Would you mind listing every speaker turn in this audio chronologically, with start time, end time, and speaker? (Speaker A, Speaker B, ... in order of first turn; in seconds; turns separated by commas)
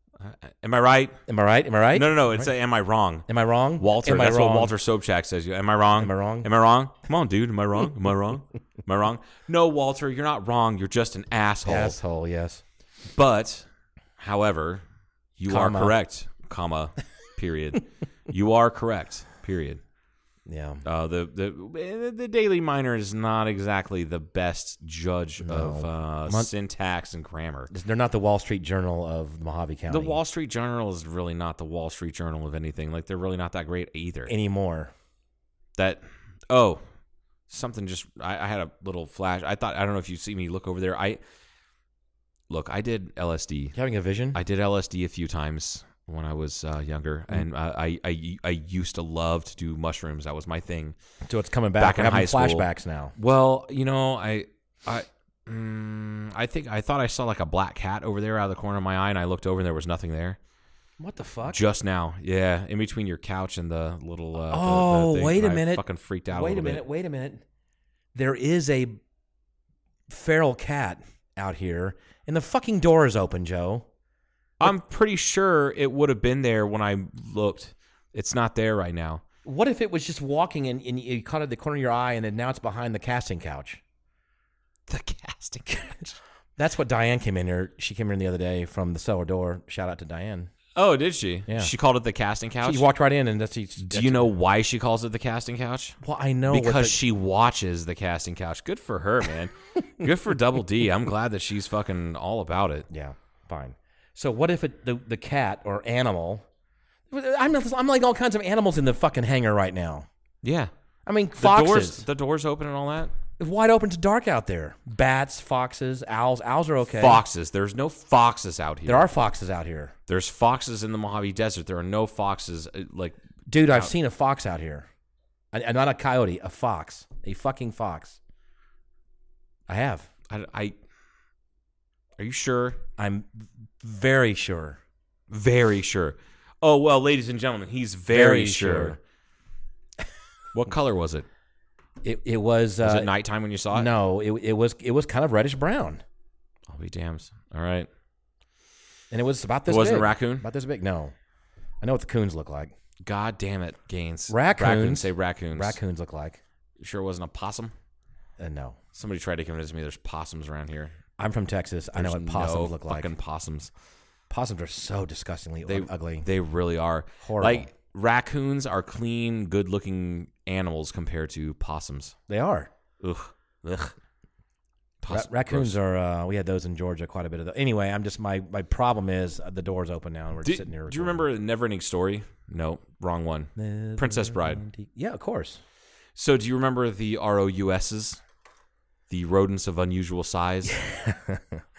Speaker A: 0.2-1.2, Speaker B: 1.3-2.5, Speaker A: 1.9-3.3, Speaker B: 3.3-4.7, Speaker A: 3.8-12.0, Speaker B: 6.0-6.5, Speaker B: 11.6-12.6, Speaker A: 13.1-13.7, Speaker A: 14.2-14.8, Speaker A: 15.4-19.8, Speaker B: 15.5-15.9, Speaker B: 20.5-20.8, Speaker A: 20.8-27.7, Speaker B: 25.4-26.5, Speaker B: 27.7-30.2, Speaker A: 29.9-34.3, Speaker B: 34.3-34.9, Speaker A: 35.8-36.8, Speaker A: 37.5-41.2, Speaker A: 42.5-43.7, Speaker B: 43.7-44.4, Speaker A: 44.3-51.0, Speaker B: 51.2-53.1, Speaker A: 51.8-60.4, Speaker B: 61.0-61.6, Speaker A: 61.4-66.8, Speaker B: 64.5-67.4, Speaker B: 68.1-69.0, Speaker B: 70.1-73.8, Speaker A: 74.6-79.2, Speaker B: 79.4-83.8, Speaker A: 84.9-86.2, Speaker B: 86.6-90.5, Speaker A: 90.7-92.9, Speaker B: 91.5-91.7, Speaker B: 92.6-94.3, Speaker A: 93.8-102.9, Speaker B: 96.0-97.0, Speaker B: 102.9-106.4, Speaker B: 107.1-110.1, Speaker A: 110.4-110.7, Speaker B: 111.0-112.0, Speaker A: 111.4-113.1, Speaker B: 113.4-117.2, Speaker A: 116.8-119.1, Speaker B: 118.8-119.9, Speaker A: 120.1-123.2, Speaker B: 123.5-124.9, Speaker B: 125.5-128.2, Speaker B: 129.7-130.1, Speaker A: 130.3-130.8, Speaker A: 132.2-132.8, Speaker B: 133.0-134.8, Speaker A: 135.3-139.0, Speaker B: 138.1-139.0, Speaker A: 140.5-141.2, Speaker B: 142.0-143.1, Speaker A: 142.8-143.9, Speaker B: 143.7-146.0, Speaker A: 146.7-147.9, Speaker B: 149.1-151.1, Speaker A: 149.7-150.5, Speaker B: 151.8-152.7, Speaker A: 153.0-155.8, Speaker B: 154.3-156.4, Speaker A: 156.8-157.7, Speaker B: 158.4-158.8, Speaker A: 158.9-160.9, Speaker B: 161.2-163.1, Speaker A: 161.9-163.7, Speaker B: 164.3-166.2, Speaker A: 165.7-172.2, Speaker B: 167.2-167.7, Speaker B: 172.3-172.7, Speaker A: 173.0-173.9, Speaker A: 175.0-175.8, Speaker B: 175.1-181.3, Speaker A: 180.4-184.6, Speaker B: 183.6-185.6, Speaker A: 186.2-188.2, Speaker A: 189.1-190.8, Speaker B: 190.8-191.6